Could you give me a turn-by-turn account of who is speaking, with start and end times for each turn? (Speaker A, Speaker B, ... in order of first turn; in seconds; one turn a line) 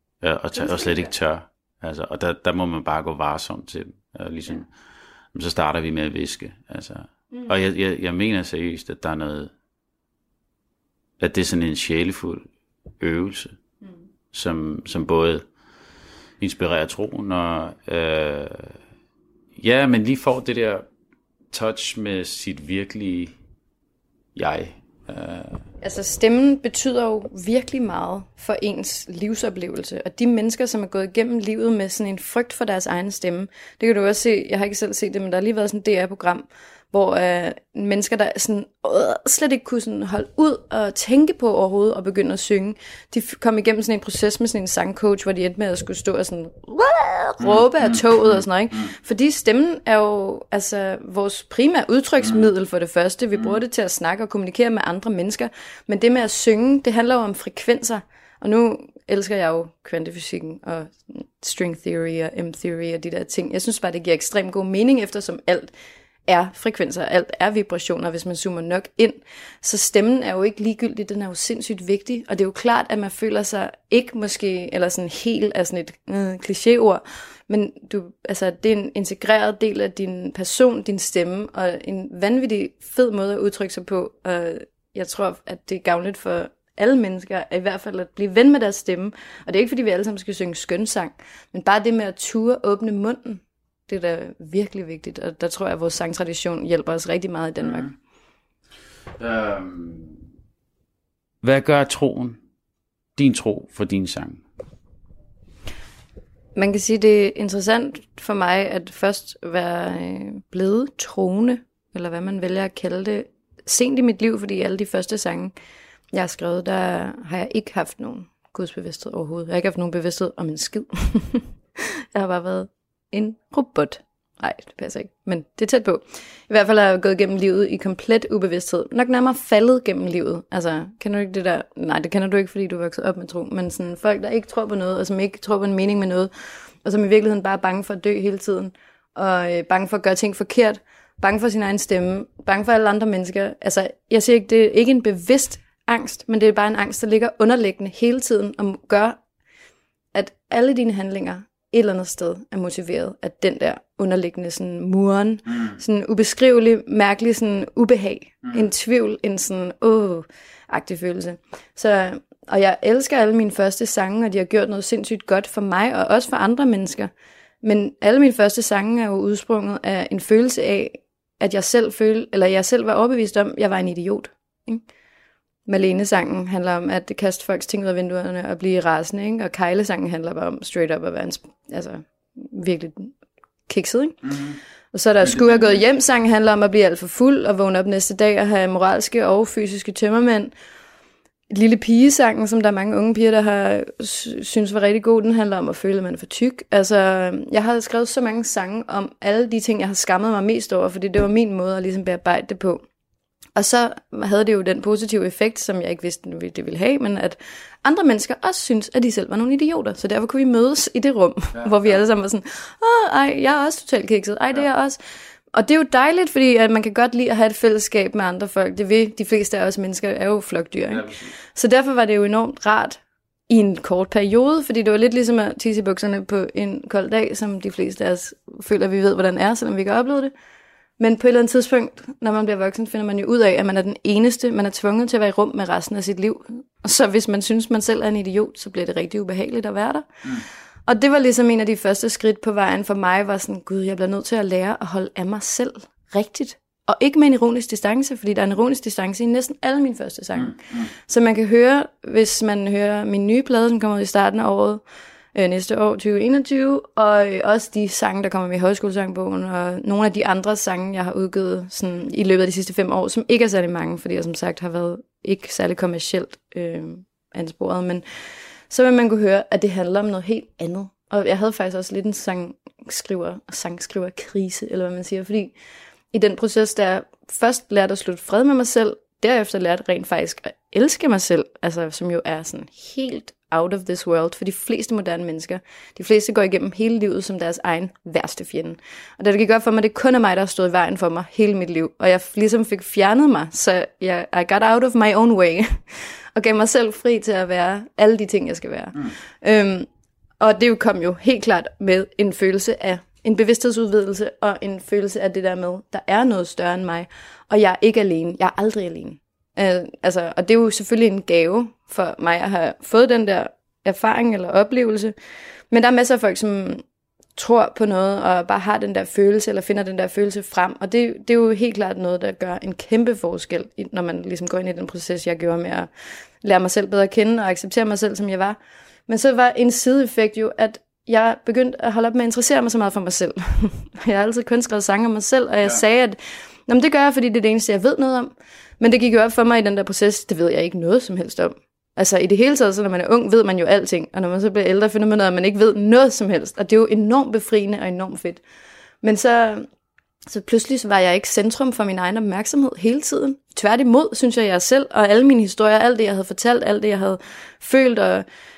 Speaker A: 0.2-4.7
Speaker B: 0.6-1.1
Speaker A: 5.3-9.5
Speaker A: 11.2-12.4
Speaker A: 13.0-13.6
Speaker A: 14.3-15.4
Speaker A: 16.4-18.7
Speaker A: 19.6-20.8
Speaker A: 21.5-23.3
Speaker A: 24.3-25.6
Speaker B: 25.8-65.7
Speaker A: 47.4-48.4
Speaker B: 66.3-97.9
Speaker A: 97.6-97.9
Speaker A: 99.2-100.2
Speaker A: 101.4-102.4
Speaker A: 103.2-104.4
Speaker B: 106.5-115.5
Speaker B: 116.1-136.3
Speaker B: 136.8-149.2
Speaker B: 150.1-167.1
Speaker B: 167.6-174.8
Speaker B: 175.7-183.1
Speaker B: 183.7-184.4
Speaker A: 184.3-184.6
Speaker B: 184.9-190.5
Speaker A: 185.2-185.8
Speaker B: 191.5-202.8
Speaker B: 203.6-215.0
Speaker A: 211.6-212.0
Speaker B: 215.5-230.3
Speaker A: 220.9-221.2
Speaker B: 231.0-254.8
Speaker A: 250.4-250.8
Speaker B: 255.3-268.0
Speaker B: 268.7-275.5
Speaker B: 276.1-299.9
Speaker B: 300.4-315.1
Speaker B: 315.7-316.8
Speaker B: 317.4-325.9
Speaker B: 326.4-328.6
Speaker B: 329.1-348.4
Speaker B: 349.0-349.7
Speaker B: 350.3-358.2